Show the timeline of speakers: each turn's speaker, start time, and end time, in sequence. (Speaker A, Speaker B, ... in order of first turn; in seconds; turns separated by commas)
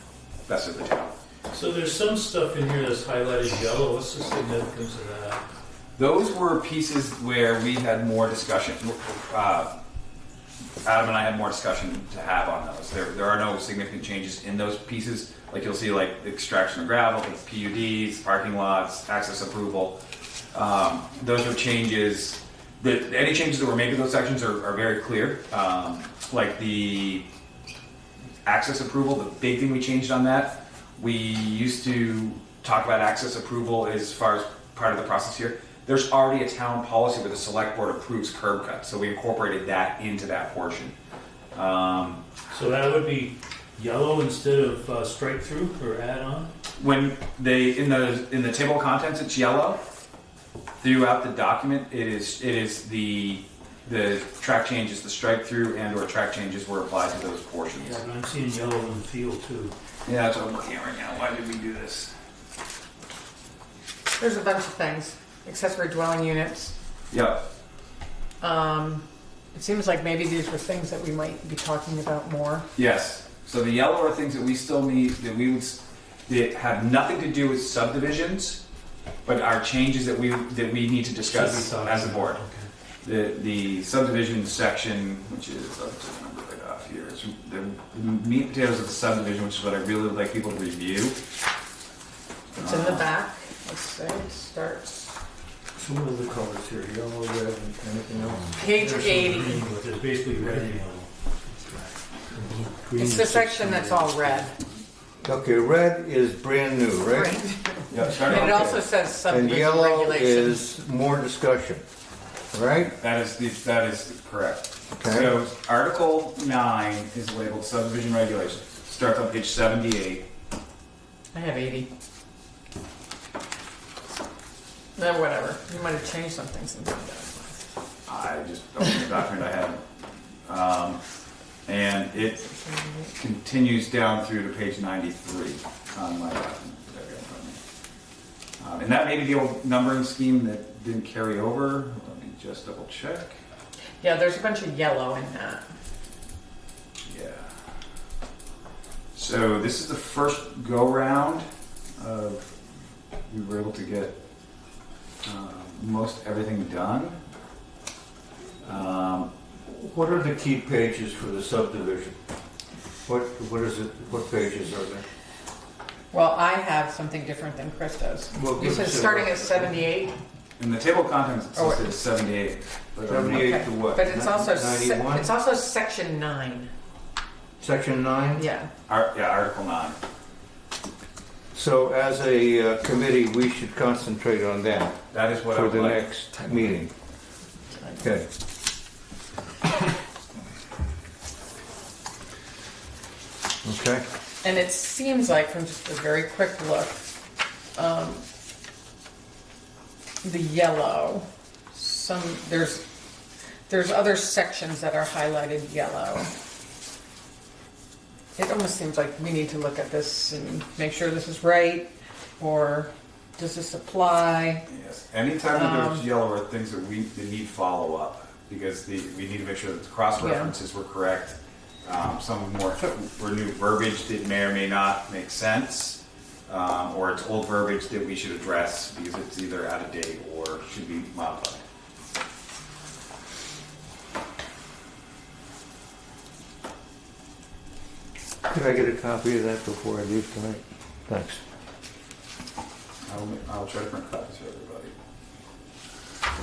Speaker A: 0.5-1.1, Speaker B: 1.5-5.4, Speaker A: 6.0-9.7, Speaker A: 10.8-20.0, Speaker A: 20.5-27.3, Speaker A: 28.4-41.0, Speaker A: 41.5-42.2, Speaker B: 42.5-46.5, Speaker A: 46.8-49.8, Speaker A: 50.8-58.0, Speaker B: 57.8-59.7, Speaker A: 60.1-62.1, Speaker C: 64.2-66.7, Speaker A: 67.1-67.4, Speaker C: 68.4-72.7, Speaker A: 72.8-78.6, Speaker A: 79.2-82.4, Speaker B: 81.2-82.7, Speaker A: 83.0-91.2, Speaker A: 92.6-93.1, Speaker C: 92.6-95.1, Speaker D: 95.8-98.9, Speaker C: 98.5-99.6, Speaker B: 98.7-101.1, Speaker B: 102.3-104.5, Speaker C: 103.0-104.6, Speaker D: 105.2-107.4, Speaker C: 107.1-110.6, Speaker A: 107.9-108.8, Speaker D: 108.0-111.8, Speaker D: 112.5-112.9, Speaker A: 112.9-120.3, Speaker D: 115.0-115.3, Speaker C: 121.3-121.9, Speaker C: 125.0-127.6, Speaker A: 128.1-129.8, Speaker A: 130.5-131.0, Speaker A: 131.7-132.5, Speaker C: 132.7-133.0, Speaker A: 133.1-137.6, Speaker A: 138.6-143.4, Speaker C: 144.0-145.6, Speaker A: 147.1-147.5, Speaker A: 149.2-152.5, Speaker A: 153.3-154.1, Speaker A: 155.2-157.2, Speaker A: 158.6-159.3, Speaker D: 159.7-162.2, Speaker D: 163.1-165.0, Speaker C: 166.1-170.1, Speaker D: 168.3-169.8, Speaker A: 170.6-173.6, Speaker C: 171.6-171.9, Speaker D: 173.1-175.3, Speaker C: 173.3-176.7, Speaker D: 177.6-178.4, Speaker C: 178.4-178.7, Speaker A: 178.9-180.0, Speaker D: 181.5-185.0, Speaker A: 185.1-186.0, Speaker D: 185.5-186.9, Speaker D: 187.9-188.3, Speaker D: 193.6-194.0, Speaker C: 194.4-197.0, Speaker C: 197.8-198.2, Speaker C: 200.2-202.8, Speaker C: 203.7-206.3, Speaker C: 208.4-214.7, Speaker A: 214.7-231.6, Speaker C: 215.5-216.1, Speaker C: 220.2-220.5, Speaker D: 238.5-241.4, Speaker A: 243.1-244.9